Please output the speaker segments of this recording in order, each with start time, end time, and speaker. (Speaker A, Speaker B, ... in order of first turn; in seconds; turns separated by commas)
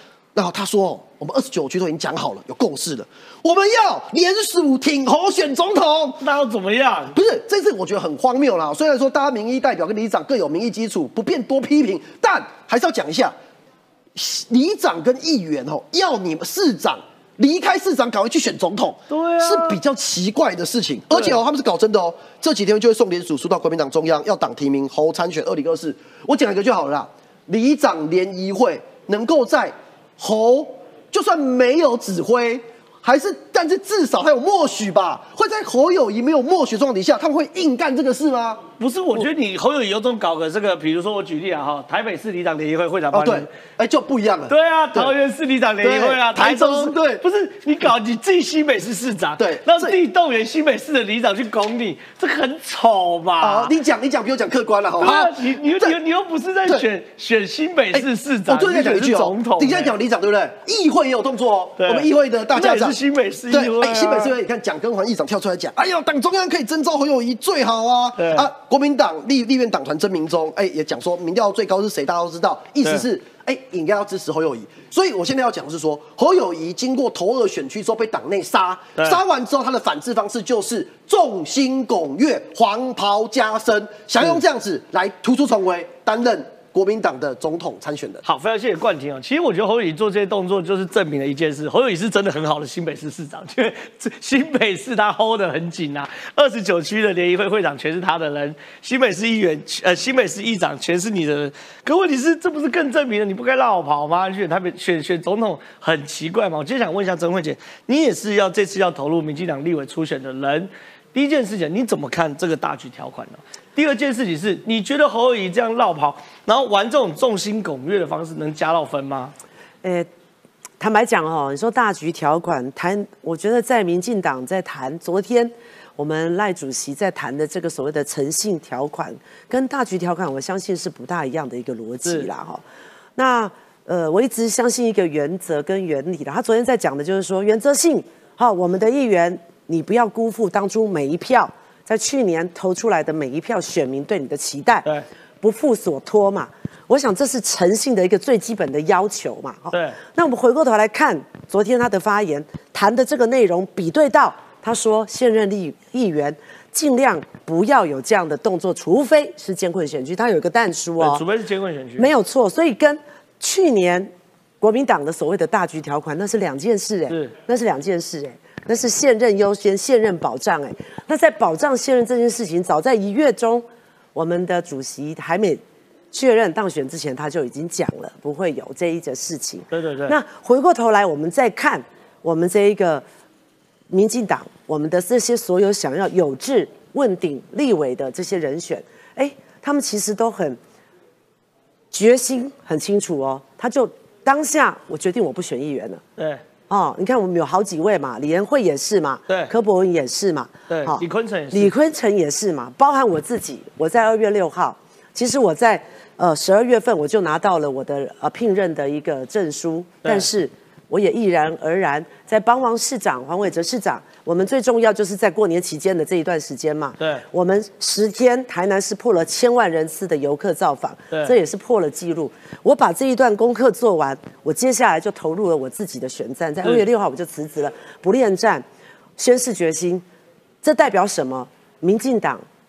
Speaker A: 0.3-6.2, Speaker B: 6.2-7.1, Speaker A: 7.1-13.3, Speaker A: 14.1-39.3, Speaker B: 19.1-19.8, Speaker B: 21.1-21.4, Speaker B: 38.8-43.5, Speaker A: 43.1-45.1, Speaker B: 44.5-53.7, Speaker A: 45.8-47.2, Speaker A: 49.4-50.0, Speaker A: 53.4-56.0, Speaker B: 55.0-59.9, Speaker A: 57.9-63.0, Speaker B: 61.8-64.3, Speaker A: 63.5-88.2, Speaker B: 68.2-68.5, Speaker B: 88.2-119.3, Speaker C: 119.8-120.1, Speaker C: 120.8-132.6, Speaker C: 133.2-144.9, Speaker C: 145.4-161.2, Speaker B: 149.7-150.0, Speaker B: 161.0-162.1, Speaker C: 162.0-183.0, Speaker B: 179.7-180.2, Speaker C: 183.9-190.6, Speaker C: 191.9-196.0, Speaker B: 196.2-196.4, Speaker C: 196.7-228.6, Speaker B: 200.7-201.7, Speaker C: 229.2-230.0, Speaker C: 230.6-232.4